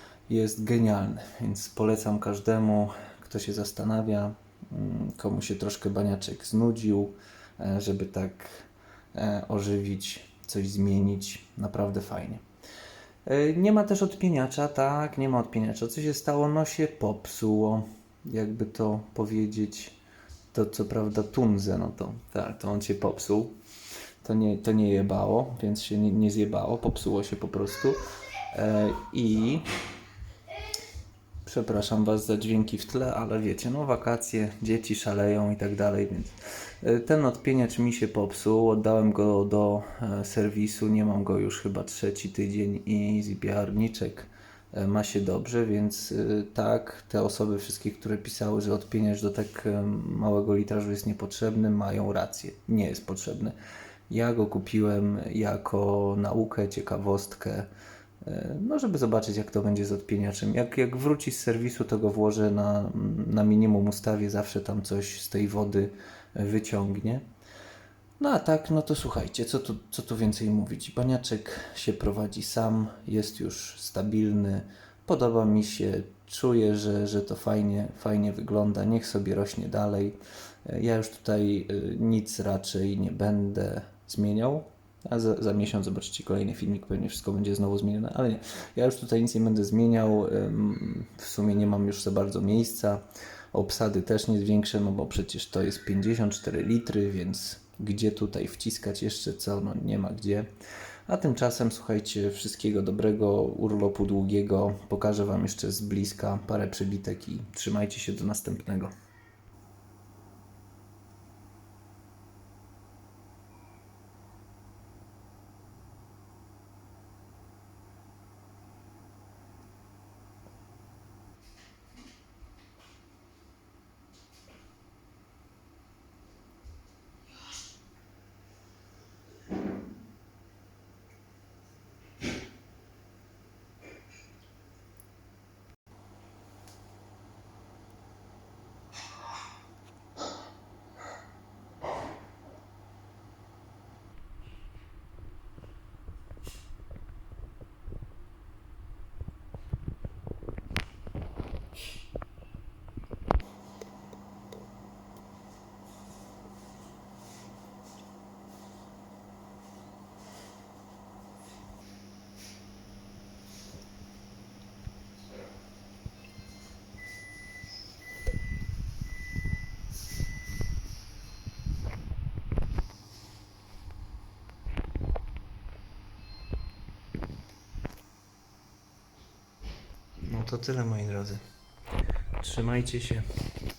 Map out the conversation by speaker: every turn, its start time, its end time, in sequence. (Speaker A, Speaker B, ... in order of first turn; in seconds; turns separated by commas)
Speaker A: 0.3-8.6, Speaker A: 9.1-12.4, Speaker A: 13.2-19.9, Speaker A: 20.5-23.6, Speaker A: 24.2-28.0, Speaker A: 28.5-29.7, Speaker A: 31.4-53.5, Speaker A: 54.1-57.7, Speaker A: 58.2-67.2, Speaker A: 68.2-100.5, Speaker A: 101.1-108.9, Speaker A: 180.2-181.4, Speaker A: 182.4-183.2